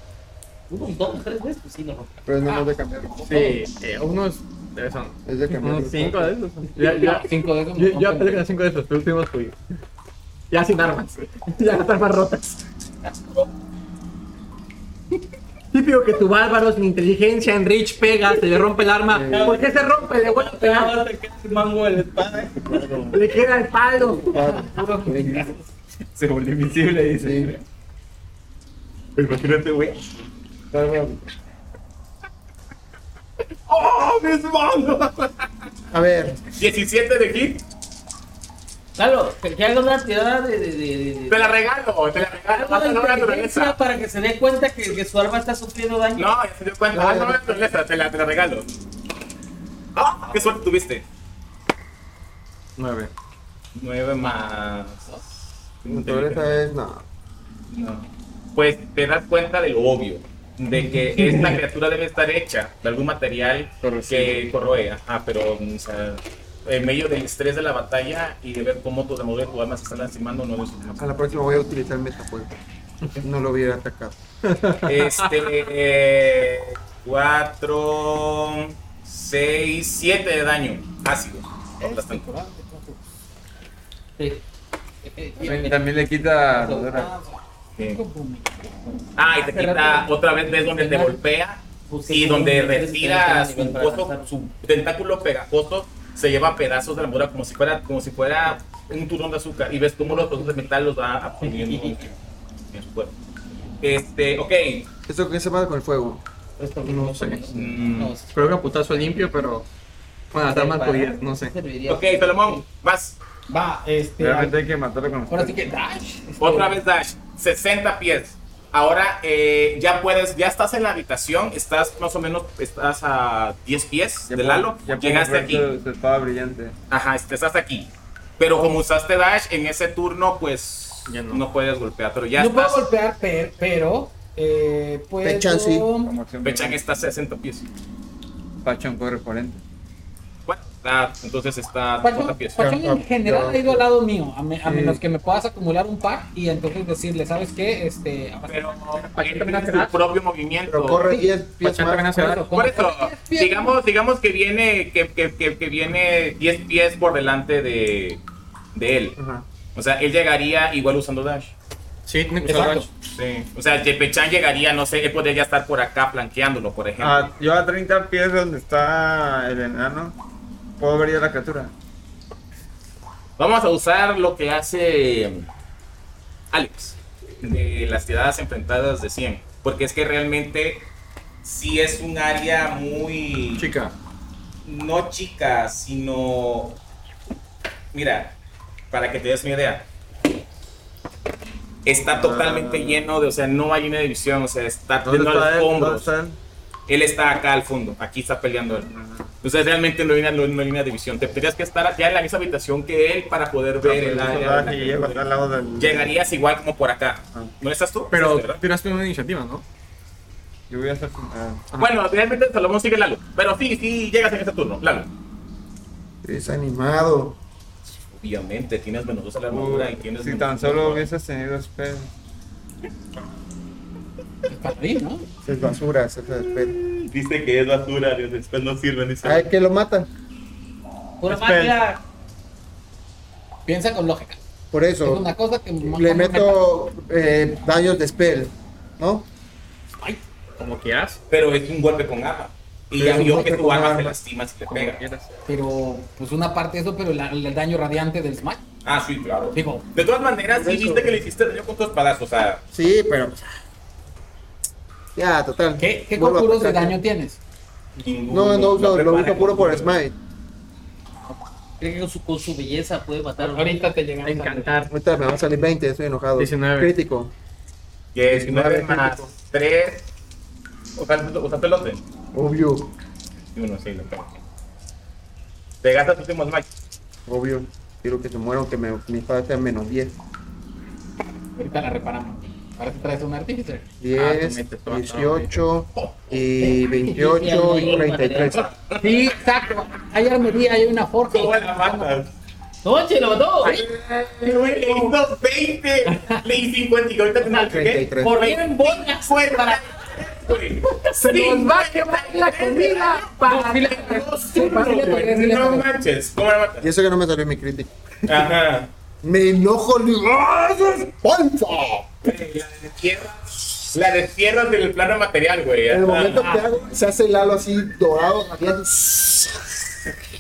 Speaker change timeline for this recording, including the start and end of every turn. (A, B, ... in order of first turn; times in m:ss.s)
0:00.7-0:02.2 A
0:02.3-0:03.6 B
0:02.4-0:02.8 C
0:03.2-0:09.6 D
0:05.2-0:06.3 B
0:06.8-0:08.5 C
0:10.5-0:12.6 D
0:15.7-0:21.0 D
0:19.1-0:19.7 B
0:19.1-0:23.0 A
0:22.6-0:23.2 B
0:23.1-0:24.4 D
0:24.0-0:25.6 B
0:24.2-0:25.6 C
0:26.2-0:27.6 D
0:27.2-0:27.5 B
0:29.2-0:30.1 E
0:30.7-0:31.2 B
0:33.7-0:35.4 E
0:35.9-0:36.4 B
0:36.5-0:37.6 E
0:39.0-0:41.6 A
0:41.3-0:43.8 E
0:42.5-0:46.3 A
0:46.2-0:48.7 E
0:46.9-0:47.6 B
0:50.0-0:51.0 E
0:52.8-0:53.1 D
0:53.8-0:55.2 E
0:55.8-0:56.6 E
0:55.9-0:57.0 B
0:57.7-1:11.2 E
1:03.8-1:04.4 B
1:11.0-1:12.6 B
1:13.2-1:14.2 B
1:14.4-1:15.5 D
1:14.8-1:22.2 E
1:21.8-1:23.0 C
1:24.2-1:24.4 A
1:25.1-1:25.8 C
1:25.3-1:26.0 A
1:25.4-1:27.1 F
1:26.5-1:27.0 A
1:26.9-1:30.1 C
1:29.2-1:42.2 E
1:30.7-1:31.2 A
1:31.9-1:34.3 A
1:40.1-1:40.4 A
1:41.4-1:42.1 A
1:42.7-1:43.2 E
1:43.8-1:44.9 E
1:45.1-1:46.2 B
1:46.6-1:49.1 A
1:46.8-1:47.4 D
1:47.5-1:48.1 E
1:48.3-1:49.7 D
1:50.3-1:51.5 D
1:50.4-1:52.6 A
1:51.9-1:53.2 E
1:53.5-1:54.6 C
1:54.2-1:55.6 F
1:55.3-1:56.8 C
1:56.4-2:05.7 E
2:04.3-2:06.8 F
2:06.9-2:12.9 E
2:11.1-2:11.4 D
2:12.4-2:16.1 C
2:15.2-2:15.9 B
2:16.0-2:16.8 F
2:16.4-2:17.7 E
2:18.6-2:19.6 F
2:20.5-2:22.7 E
2:22.0-2:30.0 C
2:22.6-2:23.8 B
2:24.6-2:25.0 B
2:28.5-2:31.0 E
2:30.7-2:32.2 B
2:31.0-2:31.3 C
2:31.6-2:32.6 D
2:32.1-2:33.8 C
2:32.5-2:38.2 E
2:38.7-2:39.2 E
2:39.2-2:39.4 B
2:39.8-2:41.5 E
2:42.1-2:42.9 D
2:42.4-2:42.9 C
2:43.2-2:47.3 E
2:47.0-2:50.2 F
2:50.8-2:51.7 F
2:53.4-2:55.5 E
2:56.5-3:00.9 E
3:01.4-3:03.7 E
3:03.6-3:04.0 D
3:04.6-3:06.8 E
3:07.9-3:08.4 E
3:08.9-3:09.9 E
3:11.8-3:16.1 E
3:12.4-3:12.8 F
3:15.0-3:16.4 F
3:16.9-3:18.9 E
3:18.9-3:19.3 F
3:19.4-3:25.2 E
3:23.8-3:26.1 F
3:25.8-3:28.6 E
3:28.1-3:29.6 D
3:30.7-3:31.6 F
3:31.7-3:35.1 E
3:36.2-3:37.4 B
3:38.1-3:41.1 E
3:39.5-3:42.1 F
3:44.5-3:45.3 C
3:45.4-3:46.8 B
3:46.4-3:49.5 E
3:49.2-3:50.1 B
3:51.2-3:52.0 A
3:53.7-3:54.4 C
3:54.7-3:59.3 B
3:55.0-3:56.6 C
4:00.6-4:01.2 D
4:01.3-4:05.0 E
4:03.0-4:04.2 B
4:03.1-4:03.5 D
4:04.7-4:05.3 D
4:05.5-4:08.6 C
4:08.8-4:12.6 E
4:09.5-4:09.9 C
4:10.6-4:11.2 B
4:12.7-4:13.4 B
4:15.2-4:17.0 B
4:15.8-4:17.4 C
4:18.0-4:20.0 E
4:18.3-4:20.2 B
4:21.8-4:23.7 A
4:23.4-4:24.8 C
4:24.2-4:24.9 D
4:24.9-4:27.3 B
4:26.4-4:26.9 D
4:28.2-4:30.1 E
4:28.3-4:29.3 B
4:31.0-4:32.0 E
4:32.3-4:33.0 B
4:33.6-4:34.4 E
4:35.8-4:36.7 E
4:37.3-4:40.2 B
4:41.6-4:43.9 C
4:44.0-4:48.8 B
4:44.1-4:45.6 D
4:46.6-4:48.7 A
4:48.6-4:49.2 E
4:49.0-4:52.1 C
4:51.3-4:52.3 E
4:52.8-4:53.9 A
4:53.7-5:06.9 E
4:56.2-4:56.4 C
4:57.6-4:58.3 B
4:58.2-4:59.8 A
5:00.9-5:05.9 C
5:06.8-5:08.5 B
5:08.3-5:08.9 E
5:09.2-5:12.2 B
5:12.2-5:16.4 E
5:15.9-5:19.9 B
5:16.3-5:16.7 C